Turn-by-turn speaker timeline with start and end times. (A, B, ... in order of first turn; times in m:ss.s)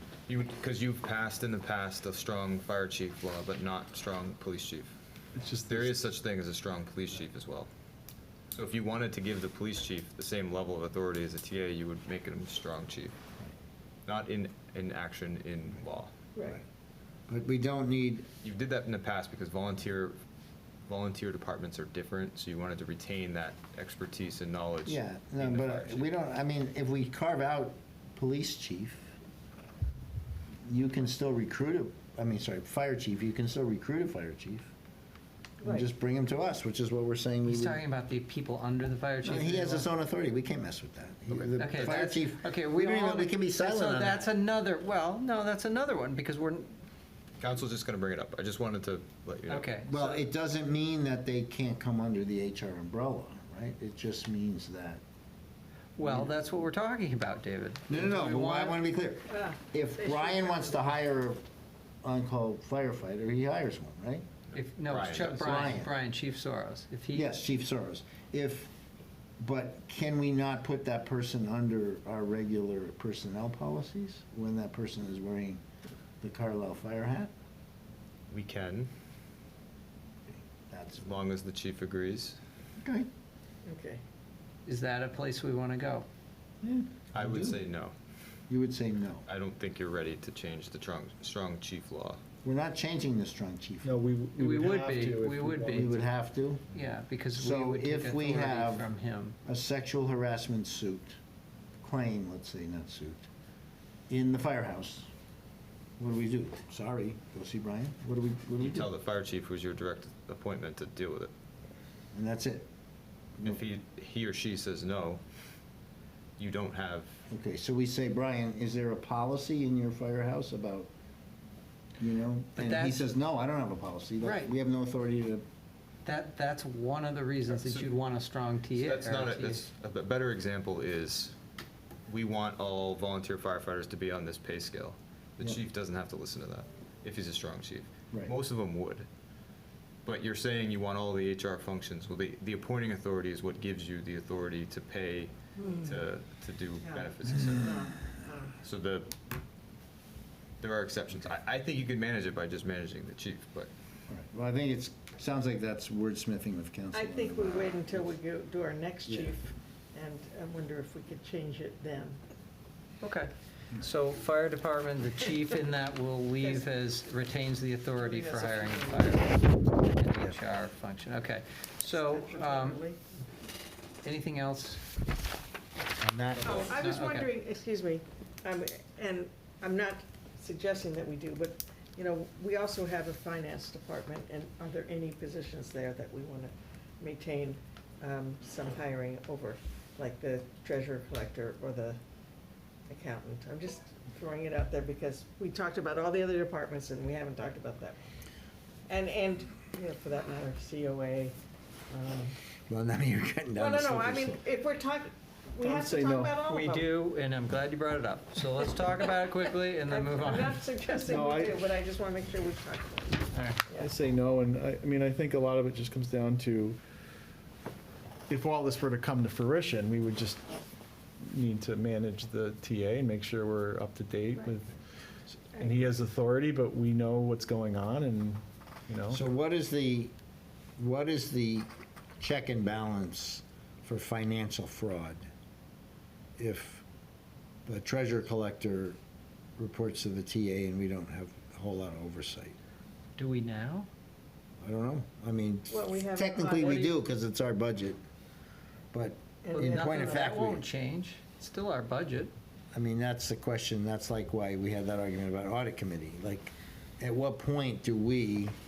0:00.3-0:04.9 A
0:05.3-0:05.9 B
0:05.6-0:07.7 A
0:08.5-0:13.1 A
0:14.0-0:16.1 A
0:16.3-0:16.6 C
0:17.3-0:18.3 D
0:18.4-0:20.2 A
0:20.9-0:26.1 A
0:24.8-0:29.1 D
0:30.6-0:34.7 D
0:35.6-0:35.9 C
0:35.6-0:37.8 D
0:37.4-0:39.9 E
0:39.2-0:44.3 D
0:41.3-0:41.6 A
0:41.6-0:46.8 E
0:47.4-0:49.8 A
0:49.5-0:50.2 E
0:49.9-0:55.0 D
0:56.0-0:58.8 E
0:56.0-0:56.3 D
0:57.9-1:01.4 D
0:59.3-1:00.9 C
1:02.0-1:04.2 D
1:04.5-1:07.3 E
1:04.8-1:05.5 A
1:05.2-1:05.9 D
1:07.1-1:08.7 D
1:09.4-1:15.6 D
1:16.2-1:17.3 D
1:18.3-1:18.9 A
1:20.7-1:21.1 D
1:21.0-1:22.4 A
1:22.8-1:23.1 D
1:23.6-1:24.0 C
1:24.6-1:26.1 E
1:26.6-1:27.6 D
1:27.1-1:27.9 A
1:28.5-1:29.2 D
1:29.2-1:32.2 A
1:32.4-1:34.0 D
1:33.8-1:36.0 B
1:34.4-1:36.0 E
1:35.7-1:36.6 D
1:36.7-1:39.4 E
1:37.3-1:38.9 D
1:39.4-1:41.2 D
1:41.8-1:43.3 D
1:44.1-1:45.1 D
1:46.0-1:48.9 D
1:48.6-1:51.3 A
1:52.1-1:52.7 D
1:53.4-1:55.2 A
1:56.4-1:57.2 A
1:57.3-2:00.9 D
2:02.0-2:05.4 D
2:02.6-2:03.1 E
2:04.2-2:04.5 E
2:06.0-2:09.6 E
2:07.5-2:07.9 A
2:08.7-2:11.4 A
2:12.1-2:19.1 A
2:20.0-2:27.8 A
2:26.8-2:28.5 C
2:28.6-2:29.1 A
2:30.6-2:33.7 A
2:34.1-2:38.1 D
2:36.9-2:42.2 C
2:39.0-2:39.3 D
2:43.0-2:52.8 E
2:46.4-2:46.7 C
2:48.0-2:49.3 C
2:51.9-2:53.0 C
2:54.0-2:54.8 E
2:56.0-2:56.8 D
2:56.4-3:12.0 C
2:56.5-2:57.3 E
3:12.9-3:18.0 C
3:18.9-3:21.3 C
3:21.9-3:22.4 C
3:22.7-3:24.4 D
3:23.6-3:26.9 C
3:25.6-3:26.3 B
3:26.4-3:30.7 E
3:29.9-3:33.9 C
3:31.1-3:31.5 B
3:33.3-3:33.6 E
3:33.8-3:36.8 B
3:38.3-3:40.4 B
3:41.2-3:44.7 B
3:44.3-3:44.6 C
3:45.5-3:49.2 B
3:45.6-3:45.9 C
3:49.1-3:50.1 D
3:50.8-3:51.7 D
3:52.2-3:55.2 D
3:56.4-3:56.8 D
3:57.6-3:59.0 D
3:59.6-4:02.6 D
4:03.2-4:03.9 E
4:04.6-4:08.0 D
4:05.7-4:06.9 C
4:08.9-4:10.6 D
4:09.4-4:10.3 C
4:09.5-4:12.3 E
4:12.7-4:18.5 D